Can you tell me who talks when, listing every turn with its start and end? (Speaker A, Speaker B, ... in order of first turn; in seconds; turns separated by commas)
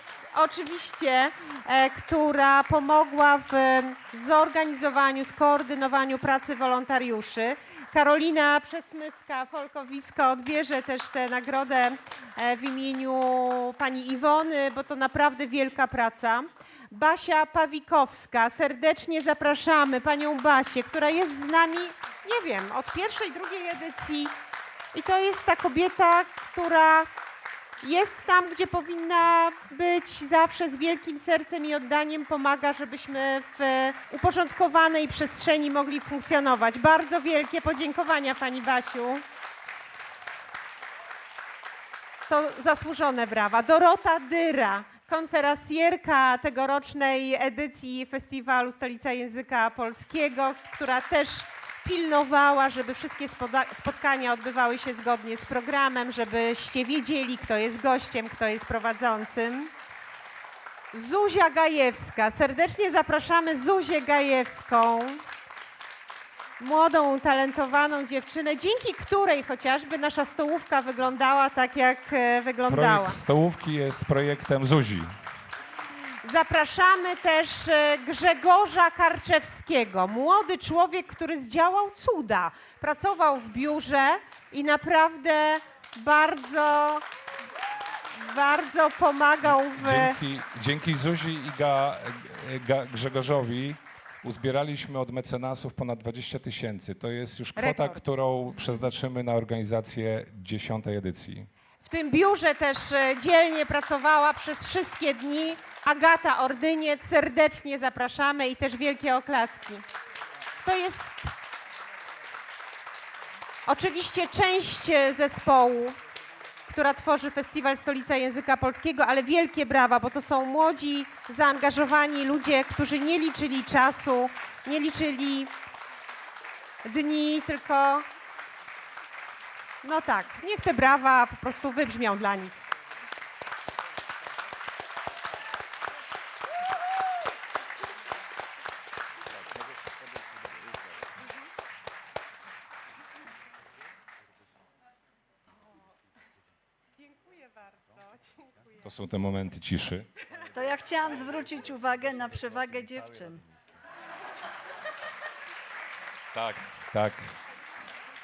Speaker A: 0.3-24.3, Speaker A: 24.9-27.1, Speaker A: 27.8-39.2, Speaker A: 42.3-59.7, Speaker A: 60.9-65.2, Speaker A: 66.6-73.2, Speaker B: 72.7-75.1, Speaker A: 76.2-87.0, Speaker A: 88.1-90.2, Speaker B: 89.5-101.5, Speaker A: 97.6-98.0, Speaker A: 101.8-109.8, Speaker A: 110.6-111.3, Speaker A: 113.7-116.0, Speaker A: 116.7-125.5, Speaker A: 126.8-128.1, Speaker A: 129.8-132.6, Speaker A: 147.0-148.8, Speaker B: 148.8-150.1, Speaker C: 150.5-153.4, Speaker B: 156.3-157.3